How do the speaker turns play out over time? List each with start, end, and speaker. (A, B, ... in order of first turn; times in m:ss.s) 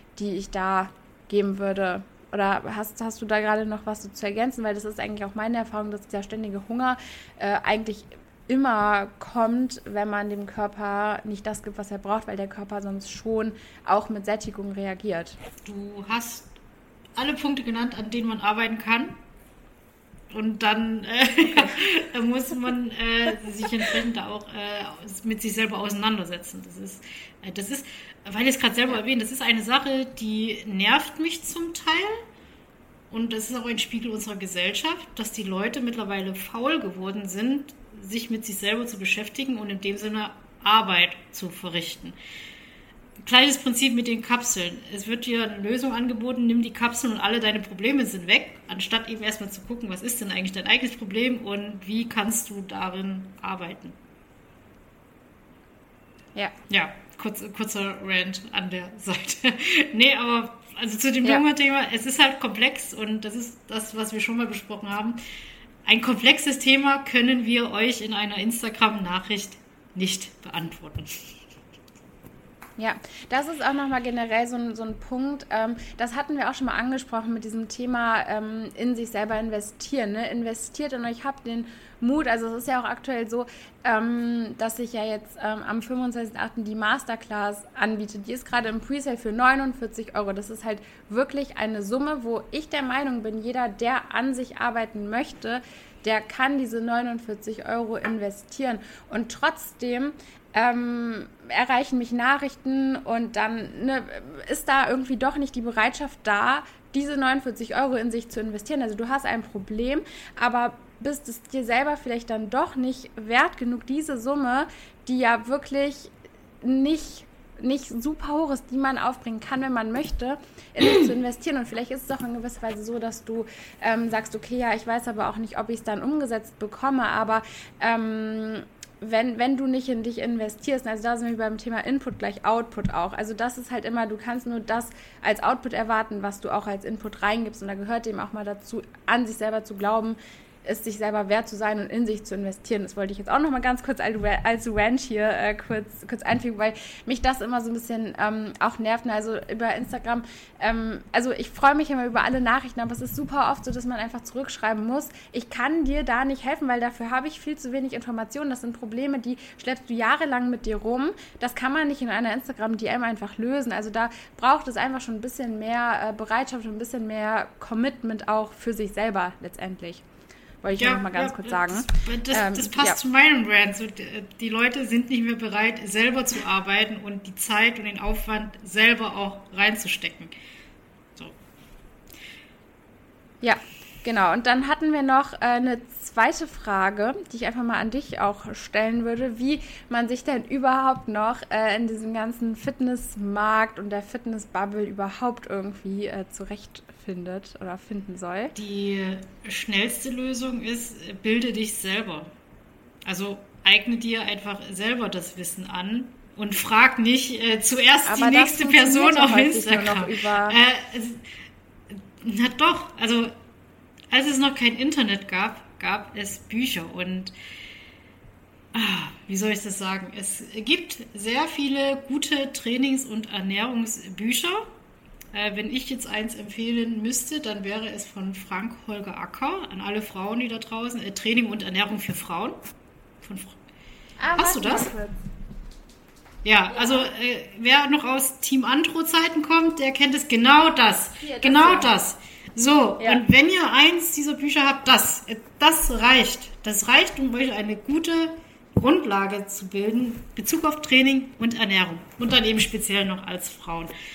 0:00.2-0:15.4 A
0:15.6-0:16.5 B
0:17.2-0:19.2 B
0:20.3-0:32.2 B
0:33.1-0:42.2 B
0:43.2-0:54.0 B
0:56.7-1:05.2 B
1:05.8-1:11.3 B
1:12.8-2:50.0 A
2:50.6-2:53.0 A
2:50.7-3:00.3 B
3:03.4-3:18.5 A
3:18.6-3:22.3 B
3:23.1-3:31.2 B
3:28.1-3:30.6 A
3:31.9-3:33.3 B
3:34.1-3:37.3 B
3:38.7-3:44.7 B
3:45.3-3:52.6 B
3:53.2-3:53.6 B
3:54.2-3:55.1 A
3:54.3-3:54.9 B
3:56.4-4:13.9 B
4:01.2-4:02.0 A